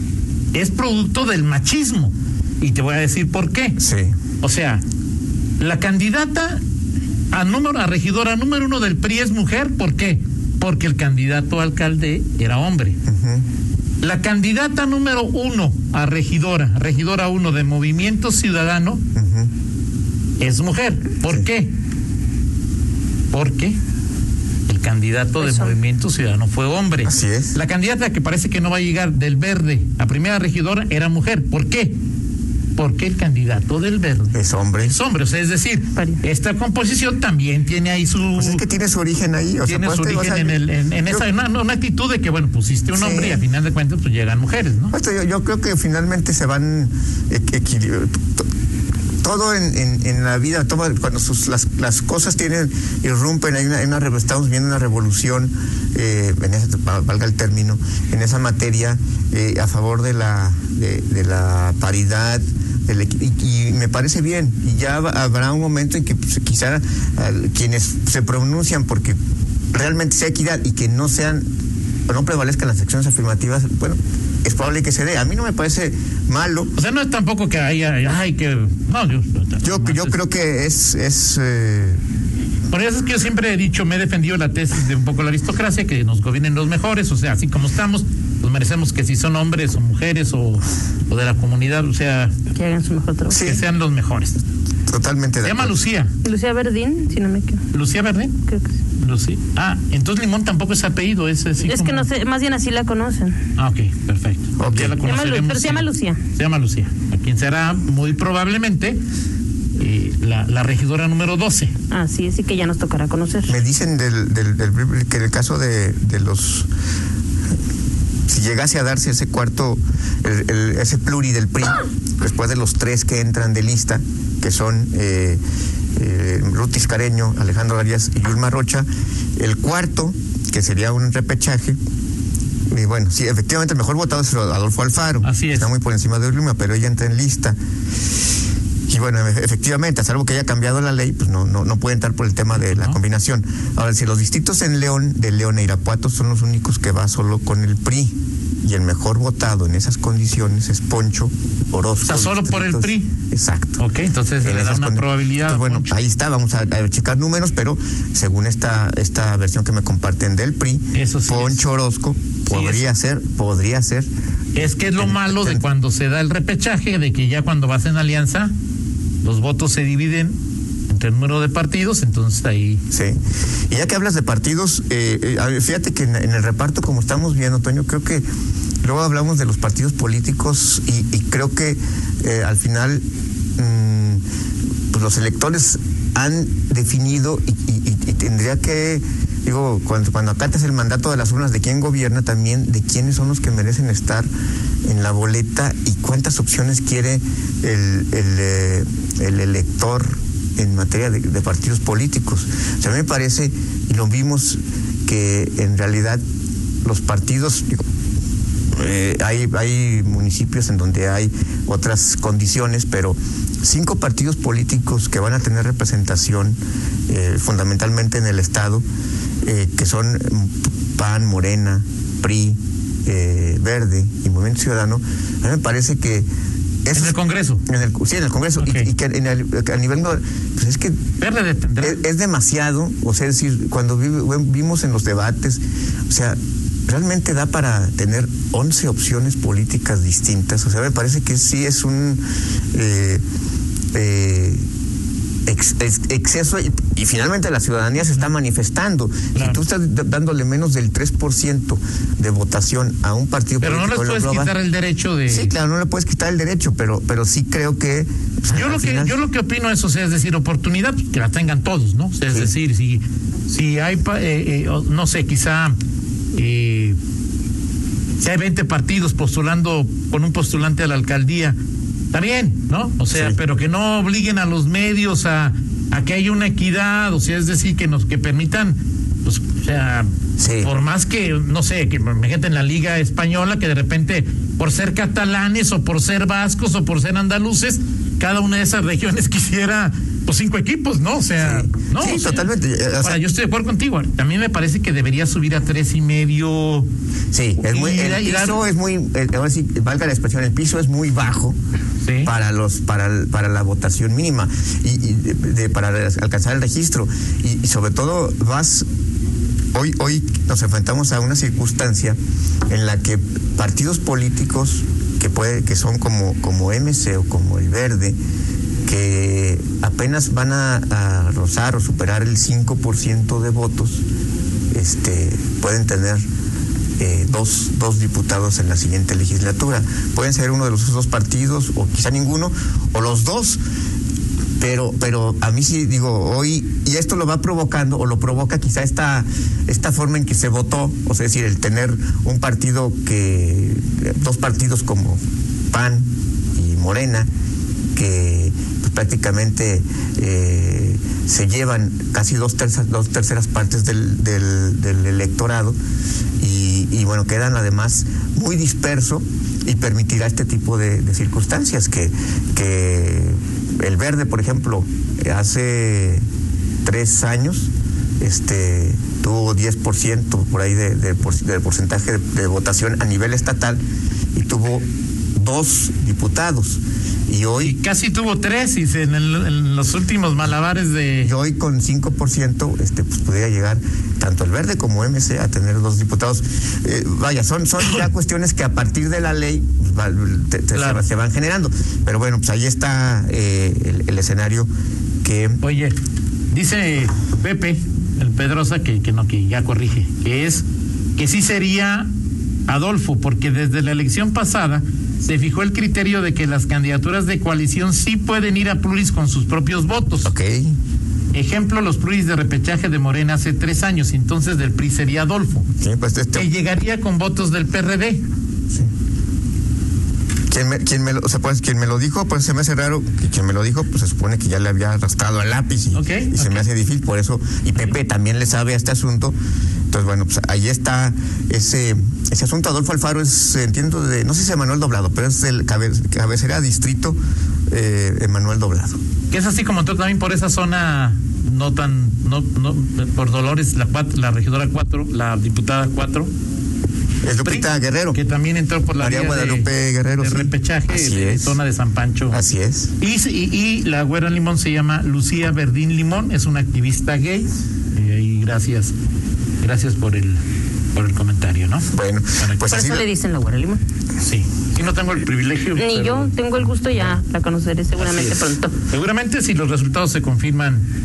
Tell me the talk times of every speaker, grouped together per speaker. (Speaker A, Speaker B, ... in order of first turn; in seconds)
Speaker A: 0.5-3.8, 4.4-4.8, 5.6-6.6, 7.3-13.0, 14.0-19.0, 20.4-21.7, 23.3-23.8, 24.7-32.0, 32.8-38.6, 39.6-44.9, 76.7-80.2, 82.7-92.3, 93.4-94.4, 95.4-96.1, 97.7-98.4, 99.0-102.1, 103.5-109.0, 109.8-111.7, 135.2-135.7, 142.5-143.0, 152.0-153.1, 153.8-155.9, 160.9-161.6, 162.5-162.9, 164.5-168.5, 169.2-170.4, 170.9-172.8, 226.9-227.6, 228.6-228.9, 231.2-232.0, 249.3-249.6, 253.6-255.5, 258.5-265.8, 266.3-266.9, 268.2-271.6, 272.1-280.1, 280.6-292.5, 293.0-296.9, 297.6-298.6, 302.0-302.3, 377.6-381.3, 390.7-391.1, 395.6-395.9, 396.5-400.6, 401.1-402.1, 402.7-410.3, 411.3-415.7, 416.3-418.2, 425.9-426.7, 439.3-446.3, 447.4-452.4, 453.0-458.9, 459.6-460.4, 460.9-462.7, 464.2-466.3, 468.0-470.9
Speaker B: 3.8-4.1, 13.1-13.4, 19.1-19.5, 27.0-27.6, 34.3-35.0, 38.4-41.2, 42.9-43.4, 44.9-48.4, 49.2-69.2, 69.7-71.4, 72.1-76.7, 79.6-82.0, 93.3-93.6, 94.9-95.8, 104.6-105.0, 113.5-116.7, 118.3-125.4, 126.0-131.8, 132.7-137.6, 138.9-153.8, 154.4-165.6, 172.9-173.2, 173.7-178.2, 178.8-183.0, 183.6-184.2, 184.9-194.3, 194.8-206.2, 206.8-207.8, 208.7-216.6, 217.1-218.8, 219.4-226.3, 226.8-231.0, 231.8-236.4, 236.9-242.2, 242.7-243.2, 243.9-244.6, 245.4-254.5, 255.3-259.2, 262.2-262.5, 273.1-273.4, 280.4-280.7, 291.4-293.2, 297.3-301.6, 302.2-308.9, 309.7-312.2, 312.7-318.2, 318.8-324.0, 324.7-326.2, 327.0-333.6, 334.6-345.2, 345.7-347.3, 347.9-355.8, 356.4-366.2, 366.8-367.7, 368.2-373.8, 374.3-377.8, 381.2-394.7, 395.2-395.6, 410.2-410.8, 415.8-416.5, 420.5-429.3, 429.9-437.2, 437.7-439.0, 447.2-448.2, 448.9-451.6, 452.3-452.9, 461.9-463.1
Speaker C: 25.4-25.7, 35.9-36.2, 92.5-93.6, 96.2-97.6, 101.6-103.4, 105.0-106.2, 111.9-113.5, 462.7-463.8, 465.8-468.7